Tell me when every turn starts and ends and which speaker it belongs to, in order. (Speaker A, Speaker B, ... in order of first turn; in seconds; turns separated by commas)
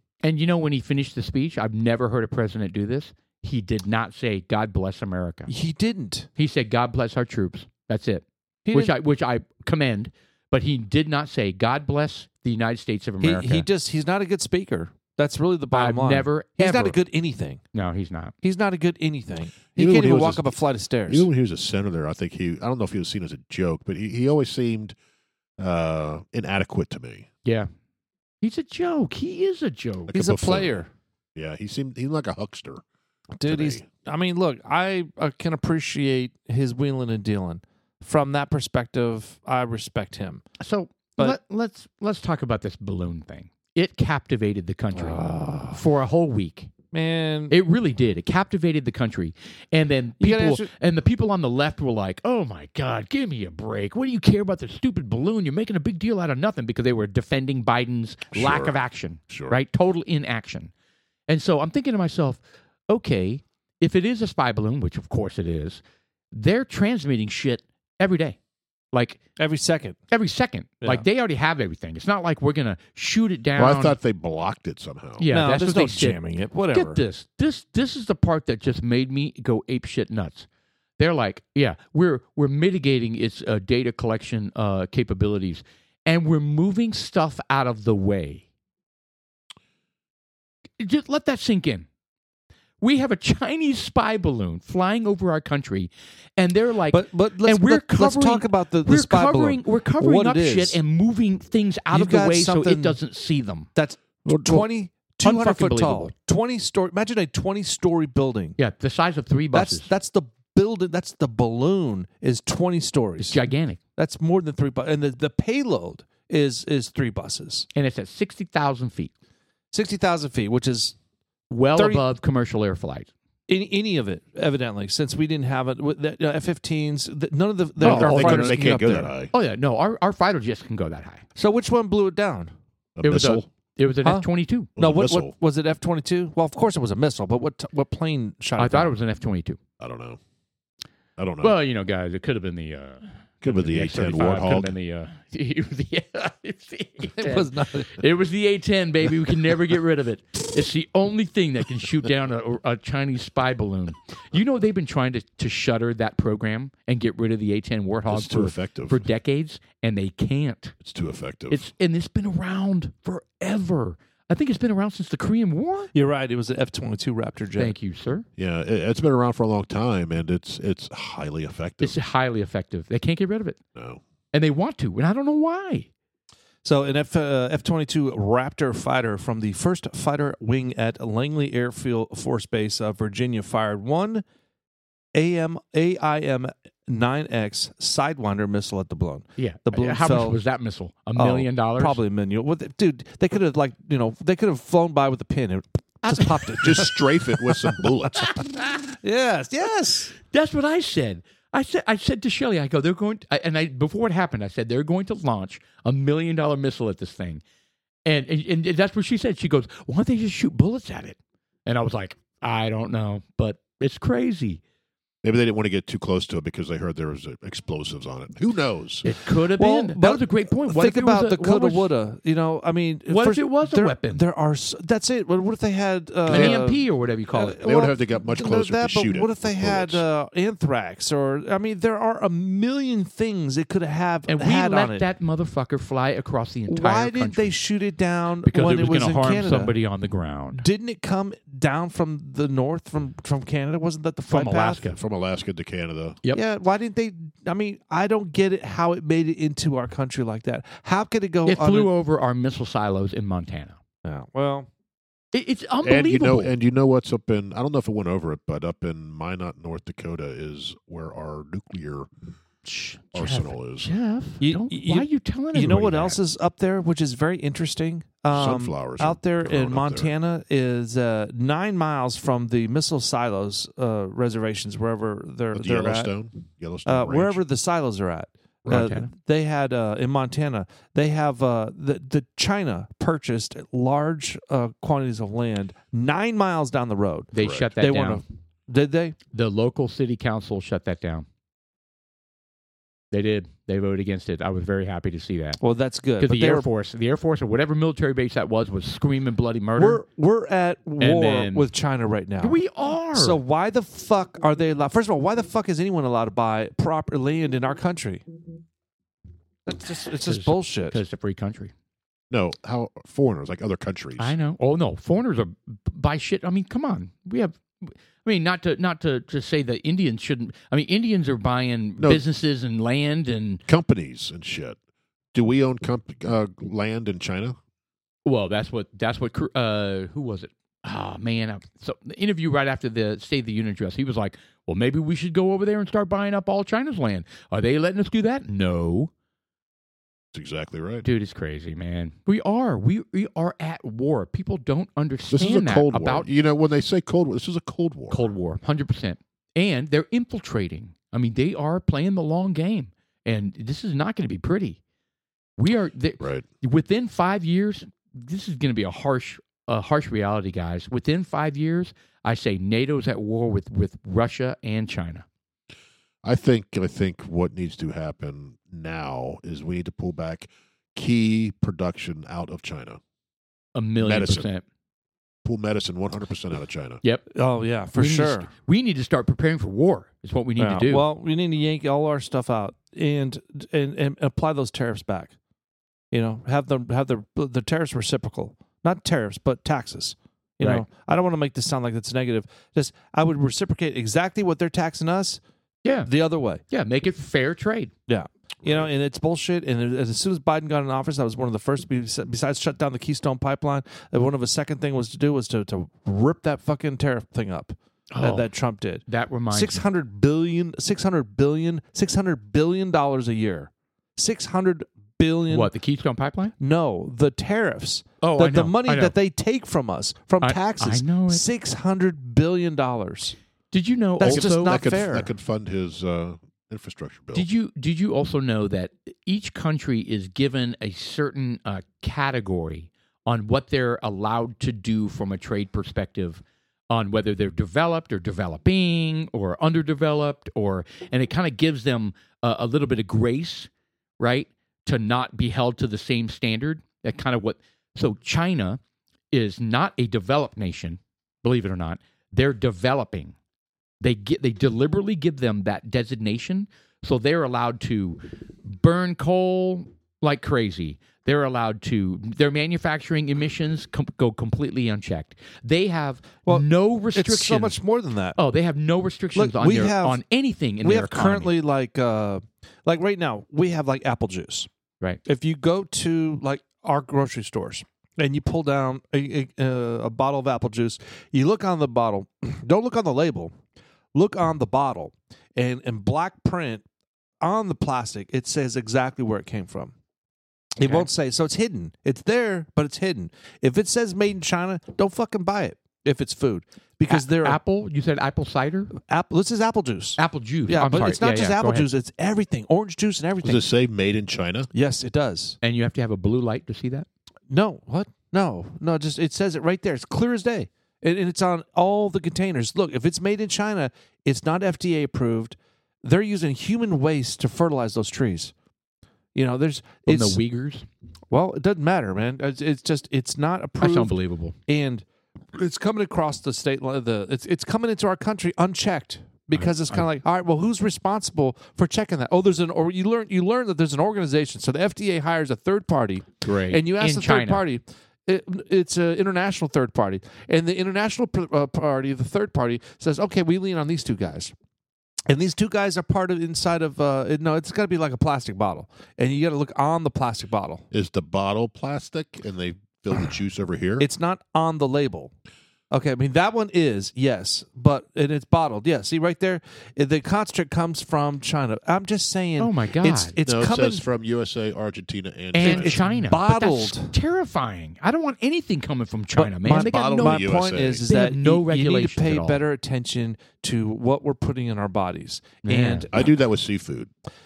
Speaker A: 0.2-5.5, Speaker B: 5.5-6.3, Speaker A: 6.4-13.7, Speaker B: 8.7-8.9, Speaker B: 13.2-17.6, Speaker A: 15.7-17.0, Speaker A: 17.7-18.3, Speaker B: 18.4-21.3, Speaker C: 19.8-20.5, Speaker C: 21.1-25.0, Speaker C: 25.6-27.3, Speaker A: 28.4-30.1, Speaker B: 30.1-30.9, Speaker C: 30.1-32.8, Speaker B: 33.4-40.4, Speaker C: 33.4-33.9, Speaker A: 40.6-46.7, Speaker B: 44.9-45.8, Speaker B: 46.9-47.6, Speaker A: 47.5-60.7, Speaker B: 50.2-50.7, Speaker C: 58.3-58.7, Speaker C: 59.3-59.6, Speaker A: 61.3-65.8, Speaker A: 66.3-68.4, Speaker A: 68.9-69.2, Speaker B: 69.4-70.0, Speaker A: 70.1-74.0, Speaker C: 73.6-75.3, Speaker A: 75.2-76.2, Speaker B: 75.3-77.0, Speaker A: 76.7-80.5, Speaker A: 81.0-88.4, Speaker A: 90.8-91.9, Speaker A: 92.8-103.7, Speaker B: 96.9-100.8, Speaker B: 101.9-103.0, Speaker B: 103.8-108.6, Speaker C: 104.3-104.6, Speaker A: 105.2-106.1, Speaker A: 108.6-109.9, Speaker B: 109.5-113.4, Speaker A: 113.2-113.8, Speaker B: 114.0-117.7, Speaker A: 117.8-119.1, Speaker B: 119.7-121.0, Speaker A: 121.5-123.1, Speaker B: 121.8-122.0, Speaker B: 123.5-129.1, Speaker C: 127.8-129.3, Speaker A: 127.8-131.2, Speaker B: 131.4-132.5, Speaker C: 133.0-133.5, Speaker A: 133.0-134.7, Speaker B: 134.0-138.9, Speaker C: 134.8-135.3, Speaker A: 138.6-139.6, Speaker C: 139.8-140.2, Speaker C: 141.2-141.6, Speaker A: 141.4-160.8, Speaker C: 143.4-144.7, Speaker B: 147.2-147.9, Speaker C: 158.1-159.1, Speaker C: 160.8-161.7, Speaker A: 161.5-165.9, Speaker B: 165.9-167.8, Speaker A: 167.6-168.3, Speaker C: 168.4-172.0, Speaker A: 171.8-173.6, Speaker C: 173.8-174.0, Speaker A: 174.3-175.9, Speaker B: 176.6-184.2, Speaker B: 185.2-190.4, Speaker A: 189.4-192.0, Speaker B: 191.2-197.6, Speaker A: 196.0-196.5, Speaker C: 196.6-198.3, Speaker B: 198.9-200.1, Speaker A: 200.2-207.4, Speaker A: 208.1-214.6, Speaker C: 215.2-219.1, Speaker A: 219.0-221.9, Speaker B: 219.6-235.1, Speaker A: 223.1-224.2, Speaker A: 226.3-227.6, Speaker C: 226.3-226.7, Speaker C: 227.6-230.0, Speaker A: 234.3-237.6, Speaker B: 236.7-239.7, Speaker A: 238.4-240.7, Speaker B: 240.6-244.8, Speaker A: 244.3-245.0, Speaker C: 245.0-246.2, Speaker B: 246.3-251.9, Speaker A: 251.5-253.8, Speaker B: 254.0-254.7, Speaker A: 255.3-256.5, Speaker C: 255.8-262.1, Speaker A: 262.6-266.2, Speaker C: 263.1-263.9, Speaker B: 264.4-276.1, Speaker C: 268.3-270.1, Speaker C: 275.5-277.4, Speaker B: 276.9-289.2, Speaker C: 278.6-278.9, Speaker A: 278.7-279.1, Speaker A: 287.3-288.2, Speaker C: 287.4-287.7, Speaker A: 289.3-291.3, Speaker A: 293.1-295.6, Speaker B: 295.6-296.7, Speaker A: 296.2-300.0, Speaker B: 299.8-302.6, Speaker A: 301.0-301.7, Speaker A: 302.4-303.4, Speaker B: 303.1-308.3, Speaker B: 309.7-311.0, Speaker A: 310.3-311.7, Speaker C: 312.3-314.4, Speaker A: 314.2-323.6, Speaker C: 323.7-324.8, Speaker C: 325.3-327.6, Speaker A: 328.2-339.1, Speaker C: 340.3-341.1, Speaker A: 341.1-346.3, Speaker C: 345.3-348.3, Speaker A: 348.1-354.8, Speaker A: 355.6-365.2, Speaker C: 366.2-373.0, Speaker A: 373.8-374.6, Speaker C: 374.0-374.5, Speaker C: 375.4-377.0, Speaker B: 377.3-378.5, Speaker A: 377.9-381.1, Speaker B: 380.6-385.3, Speaker B: 386.1-395.4, Speaker A: 395.8-396.1, Speaker B: 396.1-396.6, Speaker A: 396.7-397.9, Speaker B: 398.1-415.7, Speaker C: 398.6-398.9, Speaker A: 408.1-408.5, Speaker A: 409.1-409.8, Speaker A: 415.5-416.5, Speaker B: 416.6-423.4, Speaker A: 418.2-419.1, Speaker A: 420.4-421.4, Speaker A: 423.7-424.9, Speaker B: 424.2-425.3, Speaker C: 424.2-427.5, Speaker A: 427.3-448.8, Speaker A: 449.3-453.4, Speaker A: 454.0-467.8, Speaker B: 466.5-468.4, Speaker A: 468.4-471.5, Speaker B: 469.4-470.2, Speaker B: 470.8-474.7, Speaker B: 475.3-483.5, Speaker B: 484.1-486.8, Speaker B: 487.4-489.9, Speaker B: 490.8-497.6, Speaker A: 490.8-491.1, Speaker A: 497.1-498.9, Speaker B: 499.0-503.6, Speaker A: 500.2-501.9, Speaker C: 503.4-504.7, Speaker B: 504.7-505.6, Speaker A: 505.6-507.1, Speaker B: 507.5-518.5, Speaker B: 519.4-520.4, Speaker A: 520.1-520.9, Speaker B: 521.3-524.1, Speaker A: 523.8-524.5, Speaker B: 524.7-544.5, Speaker A: 529.5-530.1, Speaker A: 536.4-537.6, Speaker B: 545.3-550.9, Speaker C: 550.9-554.1, Speaker B: 554.0-555.3, Speaker B: 555.9-564.1, Speaker A: 562.6-563.4, Speaker C: 563.4-566.0, Speaker A: 565.5-572.6, Speaker B: 565.6-567.1, Speaker B: 569.4-576.2, Speaker C: 569.7-571.1, Speaker A: 575.6-576.1, Speaker C: 576.1-577.1